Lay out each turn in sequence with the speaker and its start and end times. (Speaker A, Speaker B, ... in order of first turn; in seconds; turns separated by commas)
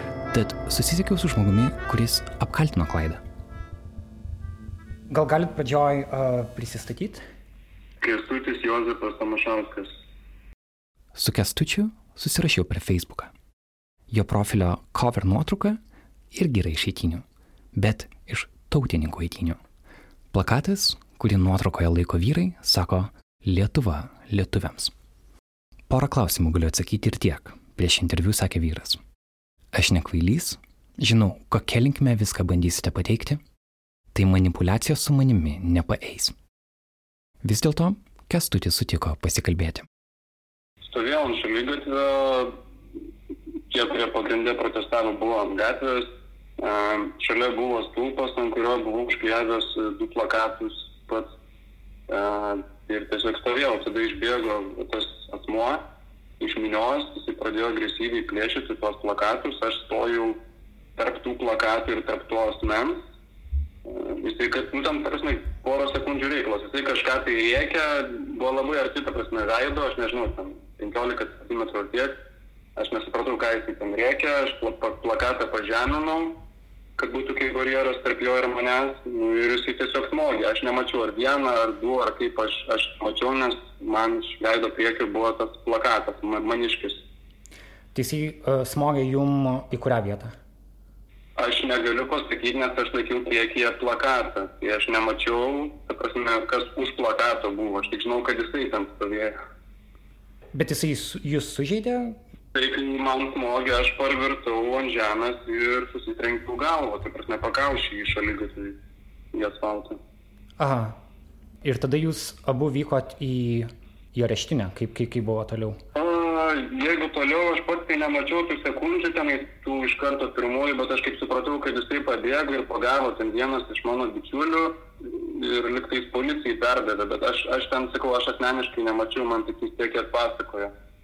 Speaker A: 0.3-3.2, Speaker B: 5.1-7.2, Speaker C: 8.0-9.9, Speaker A: 11.1-13.3, Speaker A: 14.1-15.8, Speaker A: 16.3-19.6, Speaker A: 20.3-24.9, Speaker A: 25.9-29.0, Speaker A: 29.7-33.4, Speaker A: 34.1-36.3, Speaker A: 37.4-39.9, Speaker C: 40.9-42.6, Speaker C: 43.7-51.3, Speaker C: 52.1-55.9, Speaker C: 56.4-60.4, Speaker C: 61.0-63.0, Speaker C: 63.9-72.2, Speaker C: 72.8-76.4, Speaker C: 77.0-87.0, Speaker B: 87.9-90.3, Speaker C: 91.4-99.4, Speaker B: 100.5-102.2, Speaker C: 102.5-108.8, Speaker C: 109.3-110.0, Speaker B: 110.6-111.0, Speaker B: 111.6-115.8, Speaker C: 115.9-130.7